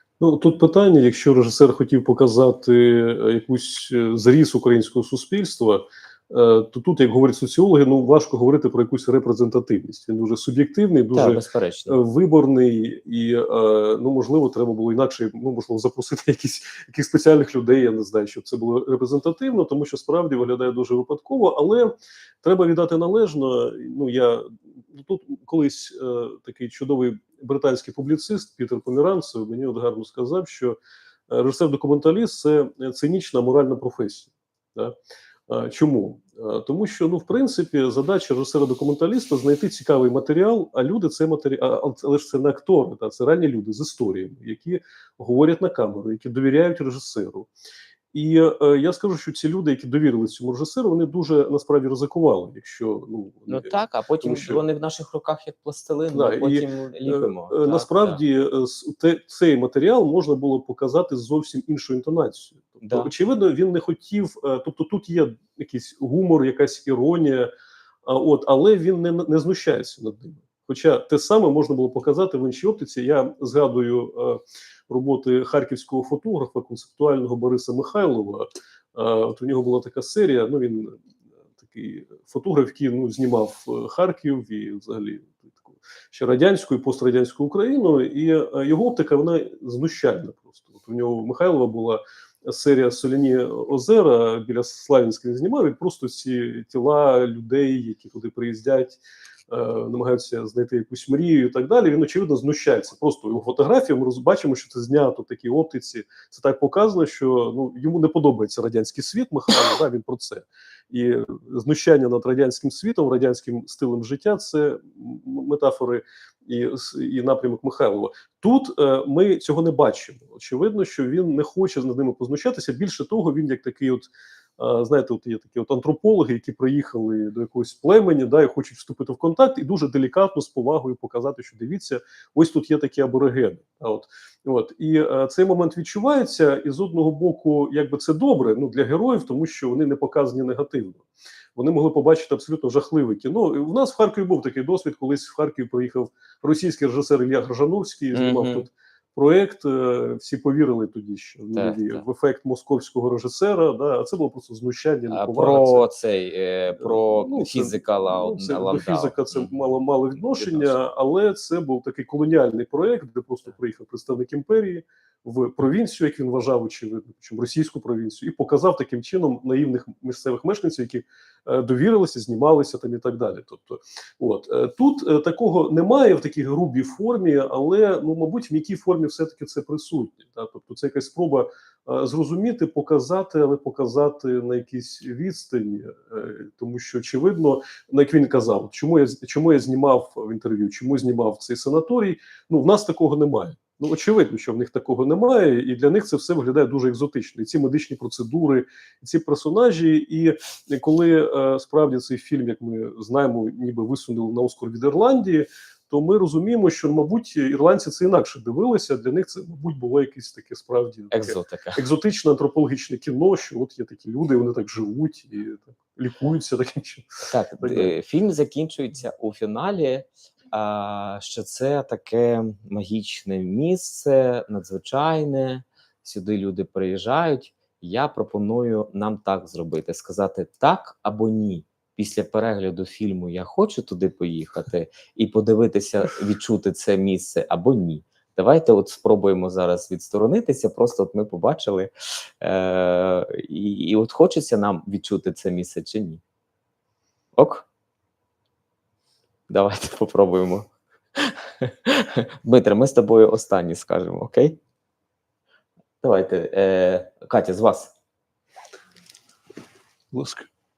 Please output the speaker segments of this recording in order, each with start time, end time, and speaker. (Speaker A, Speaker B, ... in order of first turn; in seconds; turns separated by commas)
Speaker A: 0.2-30.8, Speaker B: 11.1-12.0, Speaker A: 31.3-35.0, Speaker A: 35.5-47.5, Speaker A: 48.1-54.6, Speaker B: 53.5-58.2, Speaker A: 56.1-67.5, Speaker B: 62.8-63.1, Speaker A: 68.0-81.0, Speaker A: 81.6-141.0, Speaker A: 141.6-155.9, Speaker B: 148.1-148.7, Speaker B: 151.5-152.0, Speaker B: 155.1-159.5, Speaker A: 156.8-217.9, Speaker B: 160.1-160.8, Speaker B: 211.1-211.8, Speaker B: 217.3-246.2, Speaker B: 247.3-247.6, Speaker B: 249.5-254.6, Speaker B: 256.0-257.9, Speaker A: 260.1-260.5